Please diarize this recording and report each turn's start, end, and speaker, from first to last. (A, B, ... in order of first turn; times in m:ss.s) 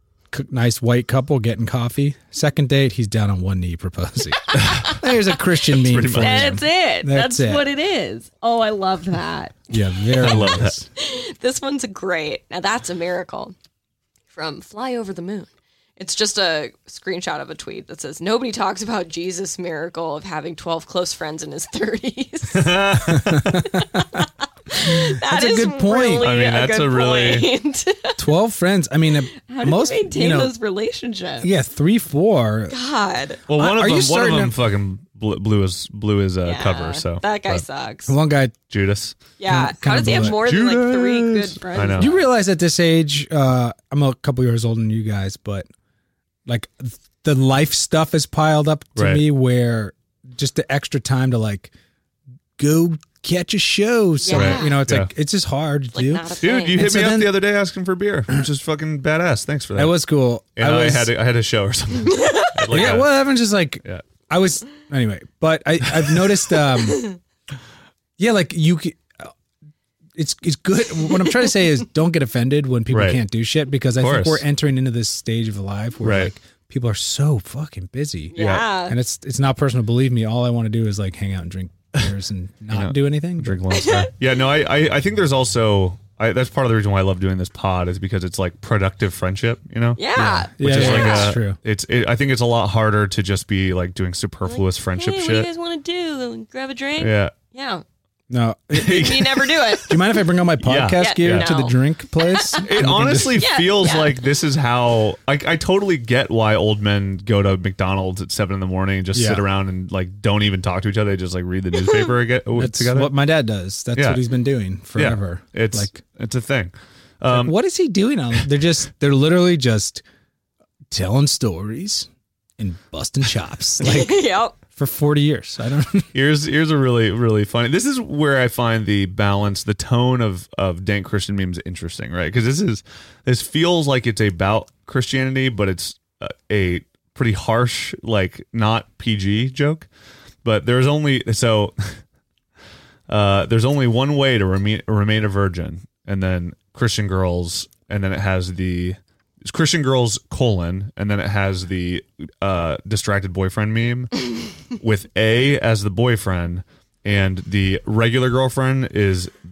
0:00.3-0:07.6 A
0:04.5-0:05.0 B
0:05.8-0:06.6 C
0:06.2-0:09.7 B
0:09.7-0:10.8 A
0:10.2-0:10.8 C
0:11.0-0:13.5 B
0:14.3-0:23.2 B
0:22.5-0:23.7 C
0:23.1-0:24.0 A
0:23.7-0:28.2 B
0:24.8-0:26.3 A
0:26.2-0:27.5 C
0:28.2-0:30.5 A
0:29.4-0:31.5 B
0:31.4-0:32.7 A
0:32.7-0:33.4 B
0:33.5-0:37.6 C
0:33.5-0:34.5 A
0:36.4-0:38.2 B
0:38.1-0:38.5 A
0:38.7-0:39.2 C
0:39.4-0:42.2 B
0:39.4-0:40.4 A
0:40.0-0:42.1 C
0:42.0-0:45.7 A
0:46.4-0:51.7 A
0:49.0-0:49.2 C
0:52.6-0:57.4 A
0:54.2-0:54.8 B
0:54.3-0:55.1 C
0:55.9-0:56.8 B
0:56.4-1:00.0 C
0:59.8-1:01.1 A
1:00.6-1:03.1 C
1:02.1-1:02.6 B
1:02.7-1:07.1 A
1:08.2-1:09.3 A
1:10.2-1:23.6 A
1:12.9-1:13.2 C
1:14.0-1:14.4 C
1:16.0-1:16.3 C
1:18.3-1:19.0 B
1:18.4-1:18.6 C
1:22.7-1:30.0 C
1:23.7-1:24.1 B
1:30.0-1:31.3 B
1:30.1-1:31.6 A
1:30.6-1:35.5 C
1:34.4-1:37.8 B
1:37.0-1:37.3 C
1:38.3-1:39.2 A
1:38.7-1:39.6 C
1:38.8-1:40.0 B
1:39.8-1:43.4 A
1:40.6-1:41.5 C
1:41.0-1:42.7 B
1:42.6-1:53.1 C
1:43.3-1:44.2 B
1:49.1-1:49.4 A
1:52.6-1:56.0 A
1:54.0-1:54.2 C
1:54.9-1:57.5 C
1:57.3-2:00.0 A
2:00.9-2:04.2 A
2:03.8-2:04.5 B
2:04.8-2:06.1 A
2:06.1-2:19.9 C
2:20.4-2:22.0 C
2:23.1-2:39.3 C